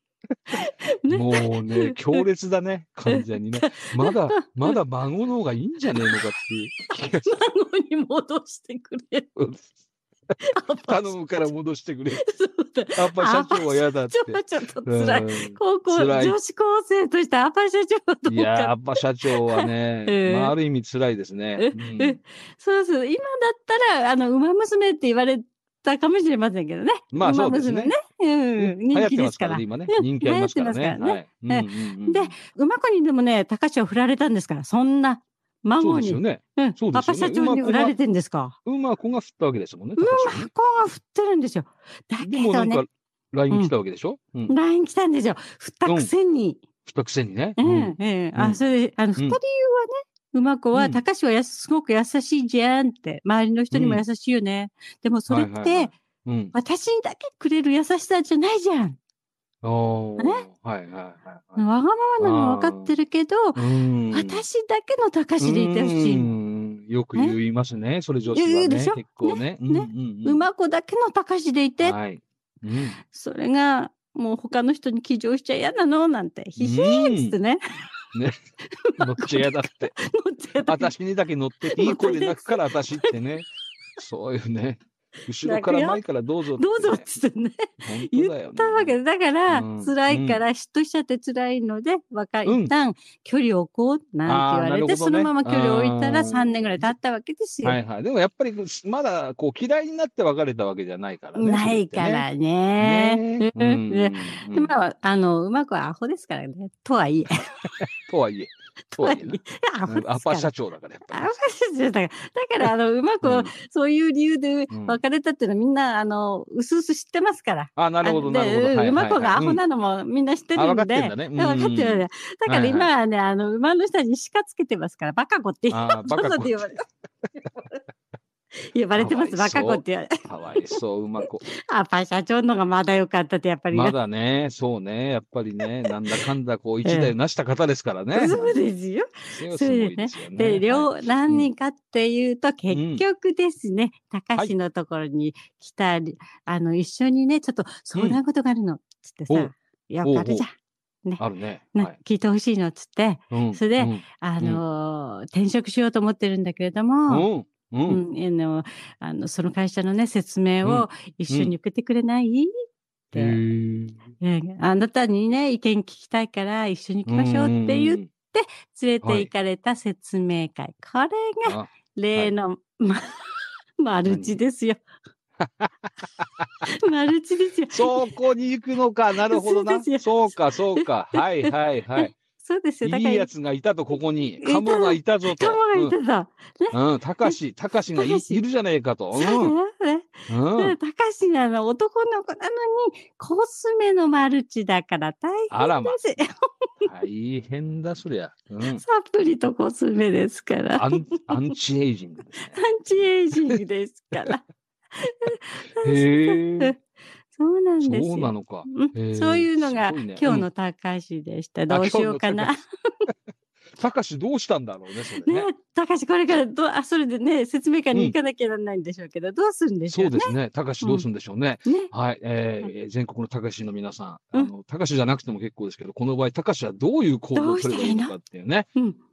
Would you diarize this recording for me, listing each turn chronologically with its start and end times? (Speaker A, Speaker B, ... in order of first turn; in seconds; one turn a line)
Speaker A: 0.5-2.2
Speaker B: 1.1-7.3
Speaker A: 3.1-4.8
Speaker A: 5.9-6.2
Speaker A: 7.2-9.3
Speaker B: 9.3-9.6
Speaker A: 10.4-11.1
Speaker B: 10.8-12.2
Speaker A: 12.2-20.5
Speaker B: 12.9-16.4
Speaker B: 18.3-22.2
Speaker A: 21.6-38.6
Speaker B: 27.1-27.9
Speaker B: 28.6-32.3
Speaker B: 35.8-37.9
Speaker B: 38.6-40.5
Speaker A: 40.0-42.8
Speaker B: 42.2-44.5
Speaker A: 44.5-46.6
Speaker B: 45.8-46.1
Speaker B: 46.8-48.6
Speaker A: 47.6-55.9
Speaker B: 50.7-51.0
Speaker B: 53.7-54.0
Speaker B: 55.3-56.5
Speaker A: 56.5-59.0
Speaker B: 59.6-61.6
Speaker A: 60.2-60.4
Speaker A: 61.6-66.3
Speaker B: 62.2-62.9
Speaker B: 63.5-64.4
Speaker B: 65.4-70.5
Speaker A: 68.3-72.0
Speaker B: 71.8-73.0
Speaker A: 73.0-77.6
Speaker B: 76.6-77.3
Speaker A: 78.8-80.9
Speaker B: 79.0-80.0
Speaker B: 80.6-87.0
Speaker A: 81.7-83.1
Speaker A: 85.4-86.0
Speaker A: 86.6-97.8
Speaker B: 87.8-88.9
Speaker B: 89.5-90.4
Speaker B: 92.4-92.7
Speaker B: 94.2-96.9
Speaker B: 97.6-102.2
Speaker A: 101.3-107.5
Speaker B: 102.8-104.7
Speaker B: 107.8-111.3
Speaker A: 108.9-110.5
Speaker A: 111.1-126.8
Speaker B: 113.2-113.5
Speaker B: 114.7-115.0
Speaker B: 117.8-119.6
Speaker B: 120.5-122.9
Speaker B: 125.7-126.7
Speaker A: 128.6-130.8
Speaker B: 128.9-131.4
Speaker A: 131.4-133.9
Speaker B: 133.7-138.5
Speaker A: 136.8-137.1
Speaker A: 138.1-150.5
Speaker B: 139.3-141.5
Speaker B: 142.7-143.0
Speaker B: 149.3-150.4
Speaker B: 151.2-151.9
Speaker A: 151.7-157.2
Speaker B: 153.3-154.6
Speaker B: 157.1-158.0
Speaker A: 157.9-162.5
Speaker B: 160.6-161.5
Speaker A: 163.1-163.4
Speaker B: 163.1-164.0
Speaker A: 164.2-174.8
Speaker B: 167.1-168.1
Speaker B: 169.0-169.3
Speaker B: 171.4-172.3
Speaker B: 174.0-174.4
Speaker B: 175.4-176.5
Speaker A: 176.7-178.1
Speaker B: 177.7-182.2
Speaker A: 179.3-183.3
Speaker B: 182.8-185.9
Speaker A: 184.4-187.3
Speaker B: 186.7-189.5
Speaker A: 187.9-188.4
Speaker A: 189.1-196.9
Speaker B: 190.3-190.8
Speaker B: 195.5-196.0
Speaker B: 196.8-198.8
Speaker A: 198.8-201.5
Speaker B: 200.8-202.6
Speaker A: 202.5-204.4
Speaker A: 204.9-206.8
Speaker B: 205.8-206.7
Speaker A: 207.3-212.6
Speaker B: 207.8-210.5
Speaker B: 211.7-212.5
Speaker B: 213.8-215.5
Speaker A: 215.2-221.1
Speaker B: 219.9-228.7
Speaker A: 221.7-221.9
Speaker A: 227.3-228.1